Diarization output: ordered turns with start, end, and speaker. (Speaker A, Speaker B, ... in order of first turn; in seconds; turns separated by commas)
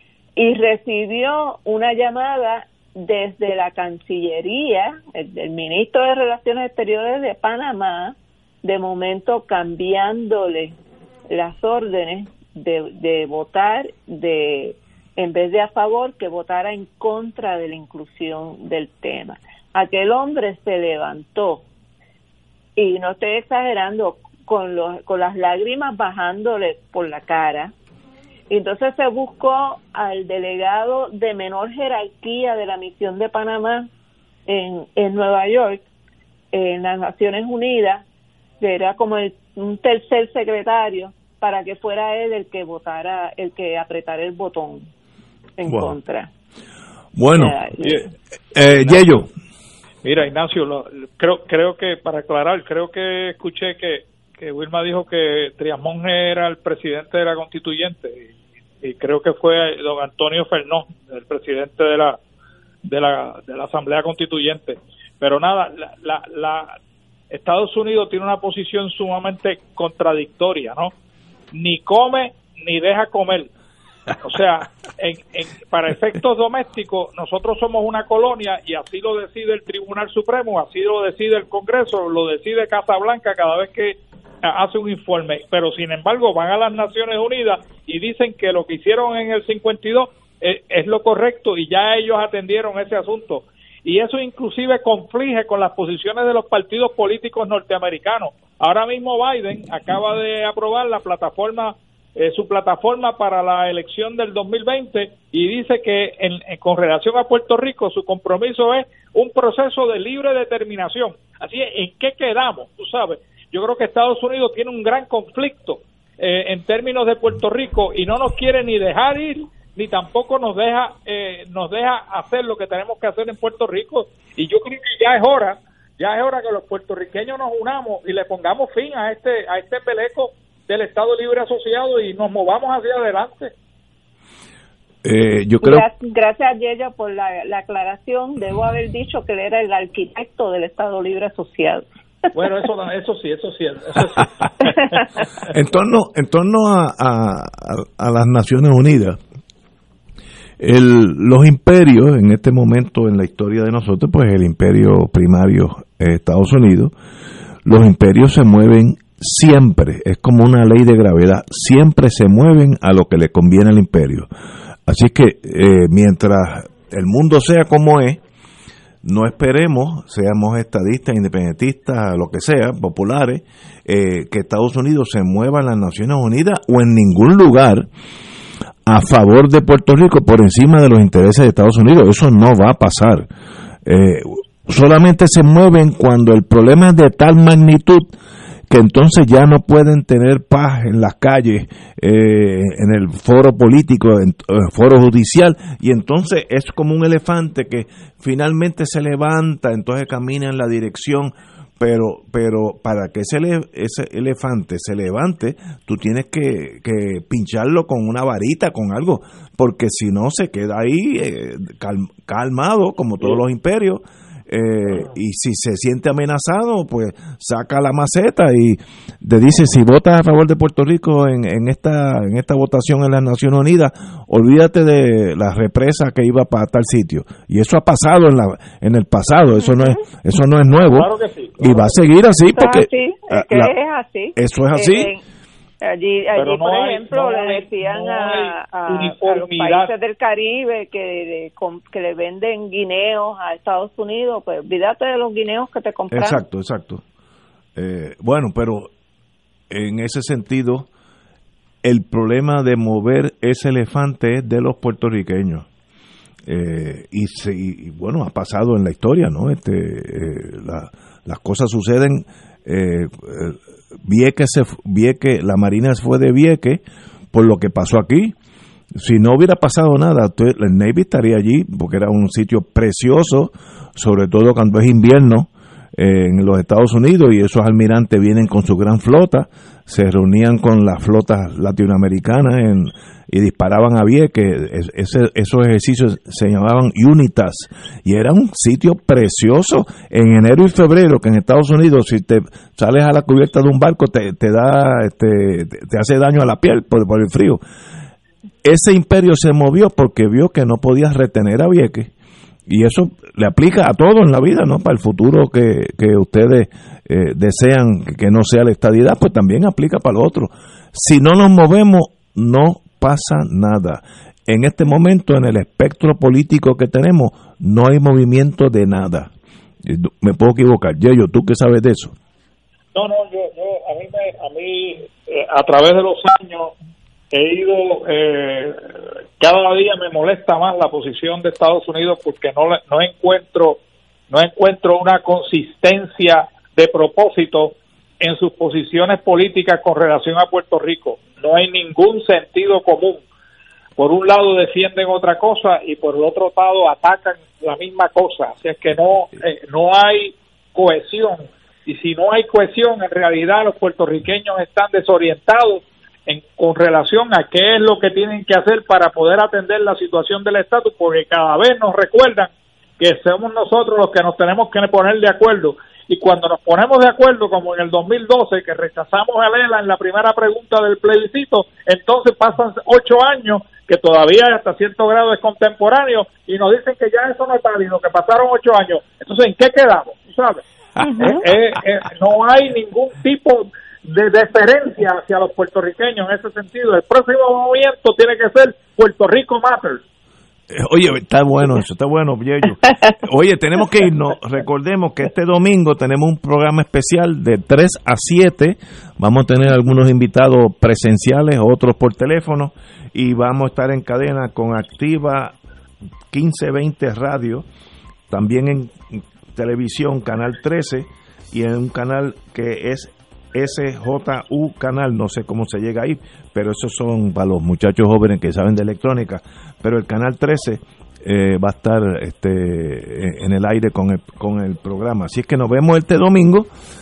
Speaker A: 0.4-10.7, Speaker A: 11.3-21.6, Speaker A: 22.8-27.7, Speaker A: 28.5-33.9, Speaker A: 34.5-35.8, Speaker A: 36.5-38.0, Speaker A: 38.6-44.9, Speaker A: 45.6-46.3, Speaker B: 45.6-45.9, Speaker B: 47.1-47.6, Speaker A: 47.3-48.0, Speaker B: 48.5-49.3, Speaker C: 50.0-58.3, Speaker C: 58.8-62.2, Speaker C: 62.8-66.7, Speaker C: 67.3-70.9, Speaker C: 71.5-73.5, Speaker C: 74.2-133.5, Speaker B: 135.0-135.8, Speaker A: 135.6-141.8, Speaker C: 142.3-145.0, Speaker B: 145.5-149.2, Speaker B: 150.6-156.9, Speaker B: 157.6-164.3, Speaker B: 164.9-168.2, Speaker B: 169.0-177.9, Speaker B: 178.8-183.3, Speaker B: 183.8-188.1, Speaker B: 188.7-233.7, Speaker C: 230.7-231.9, Speaker A: 232.6-235.2, Speaker B: 234.3-235.1, Speaker A: 235.8-246.4, Speaker C: 236.3-239.9, Speaker B: 246.1-247.0, Speaker B: 247.8-248.9, Speaker B: 249.7-250.9, Speaker B: 251.8-255.7, Speaker B: 256.4-268.3, Speaker B: 268.9-297.6, Speaker B: 298.6-302.1, Speaker B: 302.7-319.3, Speaker B: 319.8-322.1, Speaker C: 322.9-326.7, Speaker C: 327.3-328.8, Speaker C: 329.4-343.2, Speaker C: 344.0-380.6, Speaker C: 381.2-390.0, Speaker B: 390.7-405.6, Speaker B: 406.3-407.6, Speaker B: 408.3-426.7